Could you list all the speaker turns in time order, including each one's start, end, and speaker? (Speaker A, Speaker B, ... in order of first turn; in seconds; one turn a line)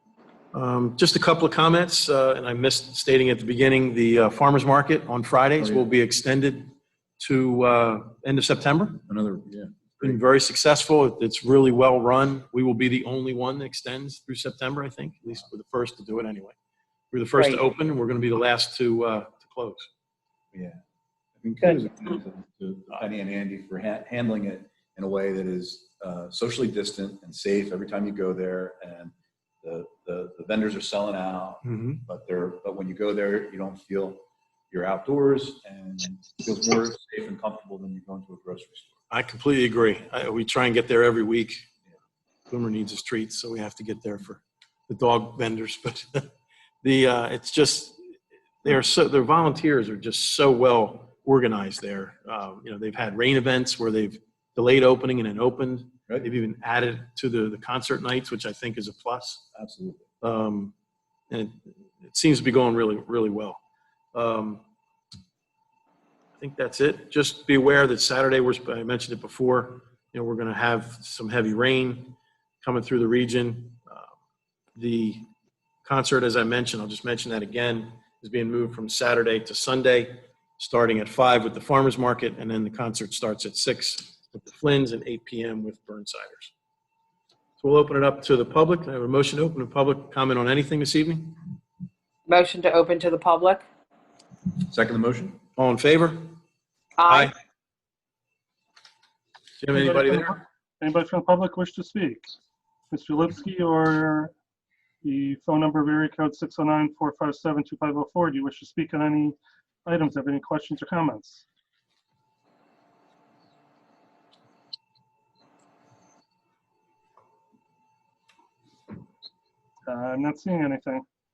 Speaker A: 0.5-9.0
Speaker B: 9.1-10.2
Speaker A: 10.0-16.6
Speaker A: 17.1-19.9
Speaker C: 17.4-17.6
Speaker B: 20.5-20.8
Speaker B: 21.4-39.0
Speaker A: 31.6-32.0
Speaker A: 39.1-41.6
Speaker A: 42.5-46.3
Speaker A: 46.8-48.0
Speaker A: 48.6-59.4
Speaker B: 59.5-60.0
Speaker A: 60.2-60.7
Speaker A: 61.3-63.6
Speaker A: 64.1-64.6
Speaker A: 66.4-74.1
Speaker A: 74.8-75.3
Speaker A: 75.8-86.5
Speaker A: 87.6-91.4
Speaker C: 92.3-93.7
Speaker B: 94.6-95.4
Speaker A: 95.6-96.4
Speaker C: 97.0-97.3
Speaker A: 97.1-97.3
Speaker A: 99.6-100.4
Speaker D: 99.7-102.2
Speaker D: 102.9-104.3
Speaker D: 105.0-111.4
Speaker D: 119.9-121.0